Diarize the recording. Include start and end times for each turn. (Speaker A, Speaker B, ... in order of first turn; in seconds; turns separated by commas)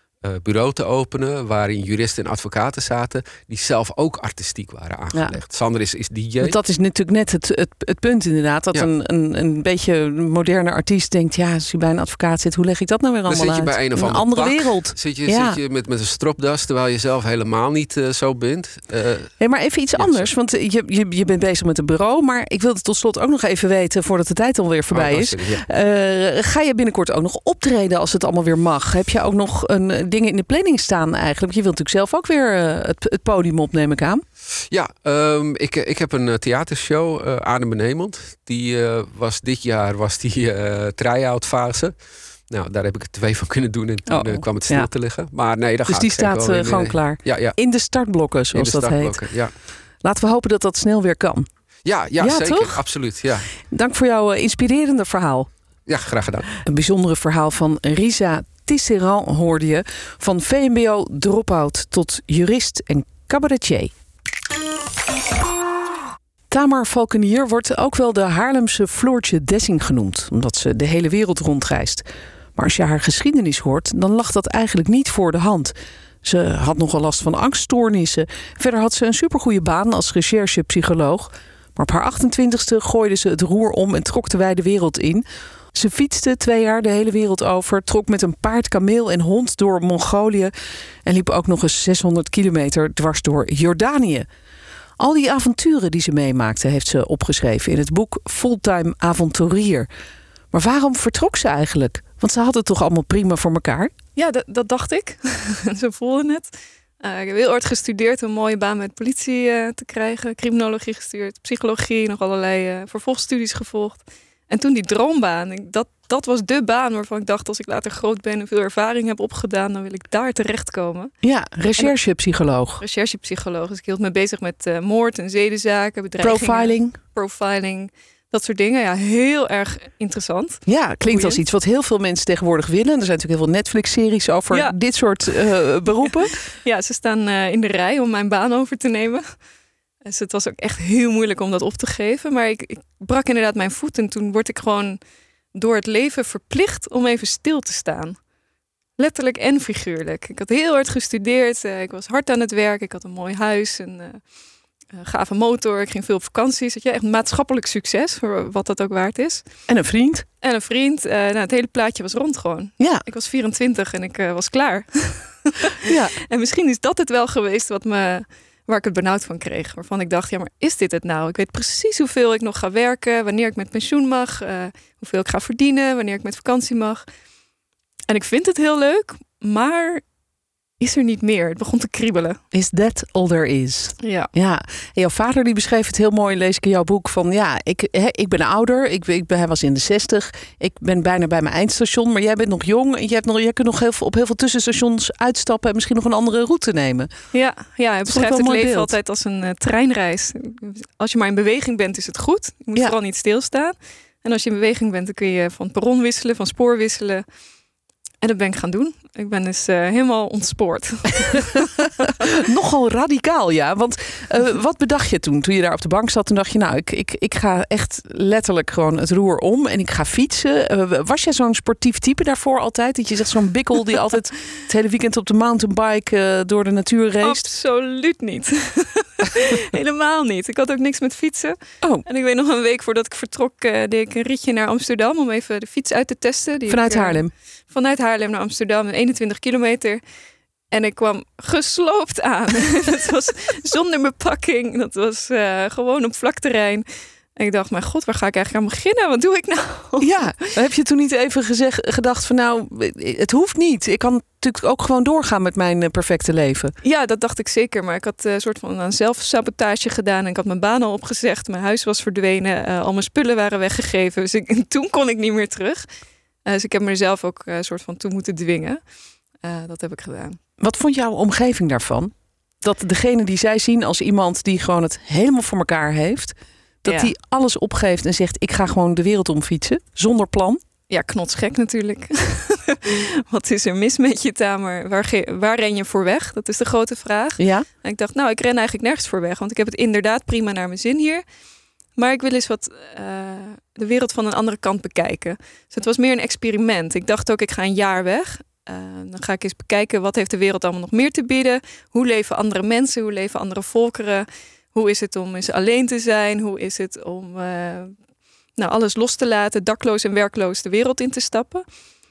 Speaker A: 0.2-6.6, Speaker B: 6.4-15.6, Speaker A: 13.3-19.3, Speaker B: 19.4-34.2, Speaker A: 20.0-20.3, Speaker A: 24.9-25.6, Speaker A: 34.7-41.9, Speaker A: 42.5-47.6, Speaker B: 44.1-44.9, Speaker B: 45.9-49.2, Speaker A: 48.5-49.5, Speaker B: 50.0-51.5, Speaker A: 51.8-53.5, Speaker B: 52.2-52.8, Speaker B: 53.6-55.5, Speaker A: 55.9-56.5, Speaker B: 56.6-63.9, Speaker B: 66.5-90.5, Speaker B: 91.0-94.3, Speaker B: 95.0-99.9, Speaker B: 100.5-103.9, Speaker C: 104.2-121.1, Speaker B: 121.2-122.8, Speaker C: 122.8-131.4, Speaker B: 126.2-127.0, Speaker B: 130.7-136.4, Speaker C: 134.5-134.8, Speaker C: 136.1-139.4, Speaker C: 140.0-145.0, Speaker C: 145.5-148.2, Speaker C: 149.0-154.2, Speaker C: 154.9-159.4, Speaker B: 159.7-160.2, Speaker C: 160.4-177.0, Speaker B: 162.8-163.0, Speaker B: 165.8-166.1, Speaker C: 178.1-180.0, Speaker C: 180.8-182.4, Speaker B: 182.5-197.1, Speaker C: 184.0-184.3, Speaker C: 197.3-207.2, Speaker B: 198.1-198.9, Speaker C: 208.2-212.1, Speaker B: 212.2-227.5, Speaker C: 227.2-240.0, Speaker B: 236.7-237.3, Speaker C: 240.7-250.1, Speaker B: 250.0-256.7, Speaker C: 256.8-265.9, Speaker C: 266.4-268.8, Speaker C: 269.4-270.4, Speaker B: 270.6-280.6, Speaker C: 276.8-277.1, Speaker C: 280.9-291.2, Speaker B: 287.4-287.6, Speaker C: 291.9-307.9, Speaker C: 308.6-311.6